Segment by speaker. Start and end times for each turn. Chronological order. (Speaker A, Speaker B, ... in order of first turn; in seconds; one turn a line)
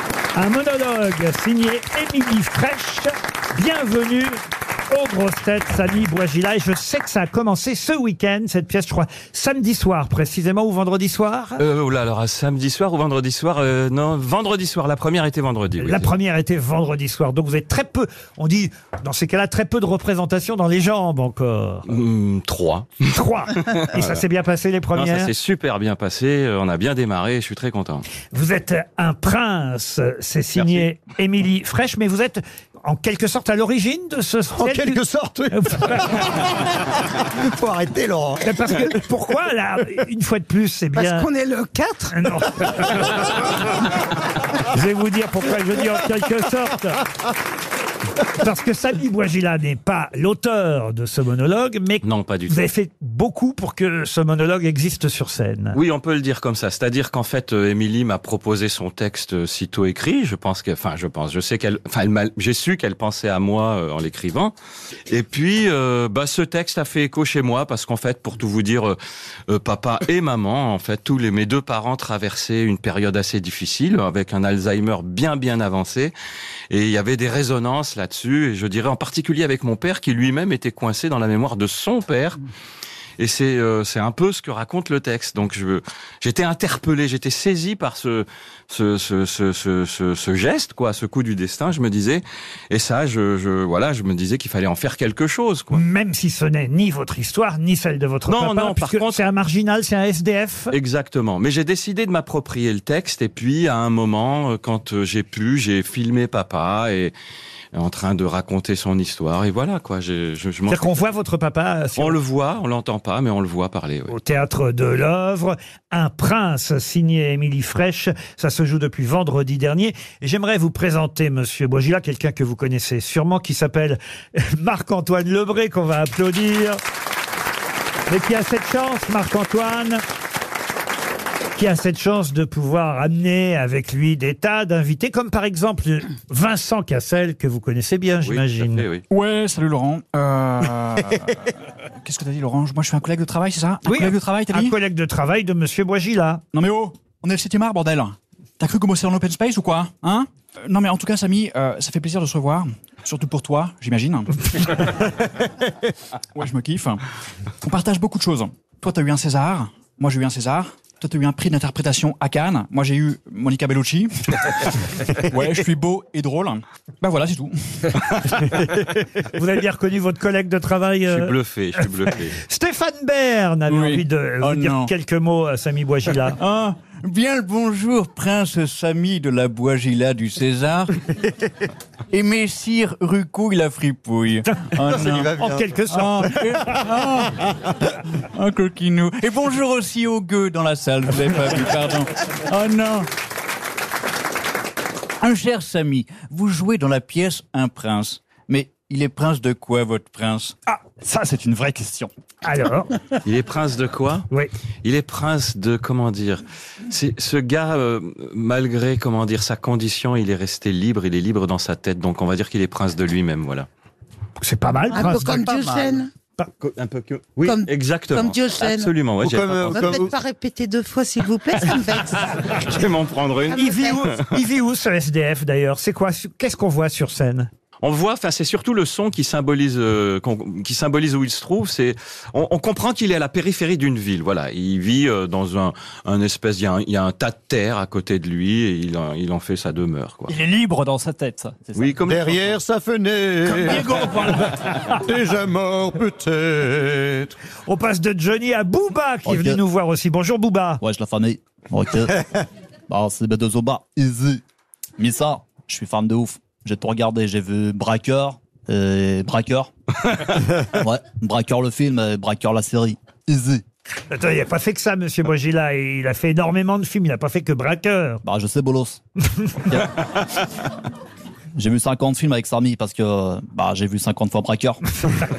Speaker A: 0.3-4.4
Speaker A: 4.9-11.6
Speaker B: 11.6-16.1
Speaker A: 15.8-21.9
Speaker B: 21.9-23.0
Speaker A: 23.1-25.3
Speaker B: 23.6-24.2
Speaker B: 24.9-28.1
Speaker A: 28.3-36.4
Speaker B: 30.6-30.9
Speaker C: 34.6-38.6
Speaker A: 38.4-41.3
Speaker D: 40.9-42.3
Speaker A: 42.1-43.8
Speaker A: 44.4-47.1
Speaker A: 48.2-55.8
Speaker B: 52.0-52.6
Speaker B: 55.7-64.5
Speaker B: 65.1-69.0
Speaker B: 69.5-76.1
Speaker B: 76.7-82.4
Speaker B: 83.2-95.8
Speaker A: 95.7-100.8
Speaker B: 98.3-99.2
Speaker B: 100.7-107.1
Speaker B: 107.7-111.1
Speaker A: 110.7-112.2
Speaker B: 112.0-114.1
Speaker A: 114.1-126.8
Speaker A: 128.1-130.0
Speaker A: 131.5-138.9
Speaker B: 138.2-139.0
Speaker E: 139.1-144.7
Speaker A: 143.8-146.4
Speaker E: 146.5-155.1
Speaker E: 156.3-157.0
Speaker E: 157.6-168.2
Speaker A: 169.2-176.4
Speaker B: 171.1-172.4
Speaker E: 173.7-174.9
Speaker E: 176.3-180.9
Speaker E: 182.1-185.3
Speaker A: 184.5-186.9
Speaker C: 185.0-185.6
Speaker E: 185.9-187.5
Speaker E: 188.1-193.1
Speaker E: 195.2-200.5
Speaker A: 200.7-201.1
Speaker E: 201.1-202.1
Speaker A: 202.4-203.1
Speaker B: 203.2-204.3
Speaker B: 204.8-213.7
Speaker A: 214.4-216.5
Speaker D: 214.9-216.1
Speaker B: 216.6-220.0
Speaker D: 217.4-218.9
Speaker C: 219.3-220.1
Speaker D: 219.6-222.7
Speaker B: 222.6-224.2
Speaker D: 223.4-224.1
Speaker A: 223.6-227.5
Speaker B: 227.8-240.3
Speaker E: 240.3-241.6
Speaker F: 241.7-241.9
Speaker B: 241.7-242.6
Speaker C: 242.1-247.3
Speaker E: 243.4-244.4
Speaker A: 247.6-250.8
Speaker F: 249.2-249.6
Speaker F: 250.8-252.2
Speaker F: 252.9-254.4
Speaker F: 255.0-263.6
Speaker A: 264.1-268.2
Speaker F: 268.2-269.0
Speaker F: 269.6-270.1
Speaker F: 271.6-274.8